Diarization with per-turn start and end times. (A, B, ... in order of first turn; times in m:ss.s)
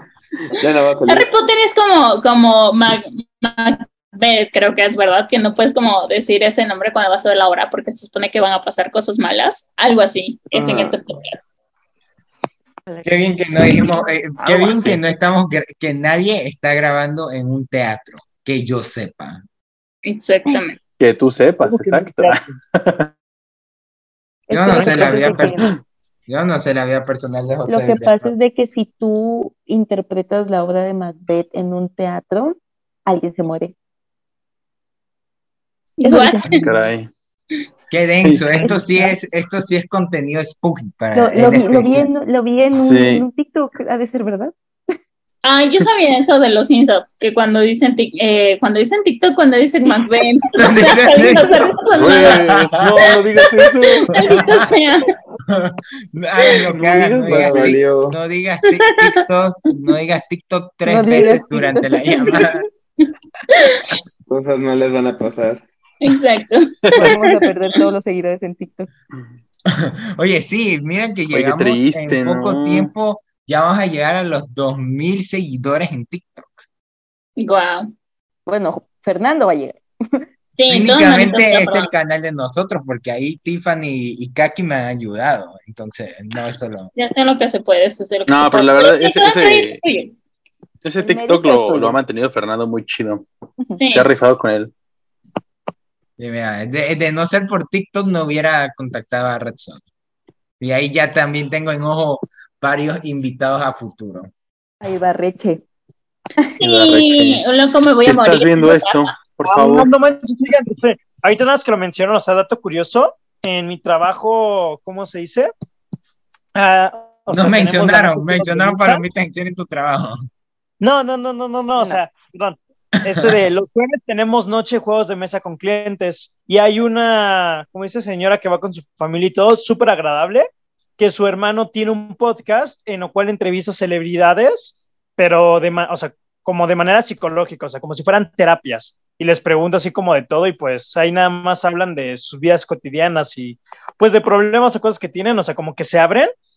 0:00.5-0:01.3 A
0:01.1-0:11.4 B
0:10.5-0:11.0 A
0:13.0-0:19.4 C
0:14.4-0:15.0 D
0:20.0-0:20.8 B
0:21.0-0:23.1 D
0:21.6-0:22.6 E
0:24.5-0:25.7 F
0:24.5-0:25.7 C
0:24.7-0:25.2 E
0:26.3-0:28.3 C
0:27.7-0:33.7 F
0:36.0-0:36.7 B
0:36.0-0:36.5 F
0:36.5-0:37.1 D
0:37.9-0:42.0 C
0:38.2-0:38.8 D
0:41.1-0:44.5 F
0:42.7-0:43.2 D
0:45.4-0:52.4 B
0:49.8-0:50.1 F
0:50.6-0:53.1 C
0:51.9-0:54.4 D
0:53.0-0:55.1 B
0:54.2-0:54.6 C
0:55.5-1:02.6 C
0:56.7-0:57.6 D
0:57.1-0:58.2 A
0:58.7-0:59.2 B
1:00.8-1:02.5 F
1:03.5-1:03.8 B
1:04.3-1:05.6 A
1:06.0-1:07.4 B
1:06.9-1:08.9 F
1:09.7-1:16.6 C
1:11.3-1:12.9 D
1:17.4-1:17.9 B
1:18.5-1:20.2 F
1:20.6-1:21.9 B
1:20.7-1:26.9 C
1:27.0-1:30.1 B
1:28.3-1:29.8 D
1:30.8-1:33.2 D
1:31.0-1:32.0 F
1:33.8-1:34.1 B
1:33.9-1:34.7 D
1:36.2-1:39.8 C
1:40.6-1:44.3 C
1:44.8-1:45.6 F
1:46.6-1:49.2 B
1:46.6-1:47.5 D
1:48.0-1:49.9 D
1:49.4-1:55.5 E
1:56.5-1:59.0 E
1:57.3-2:00.2 C
2:00.8-2:10.5 E
2:03.0-2:03.4 C
2:11.0-2:26.3 E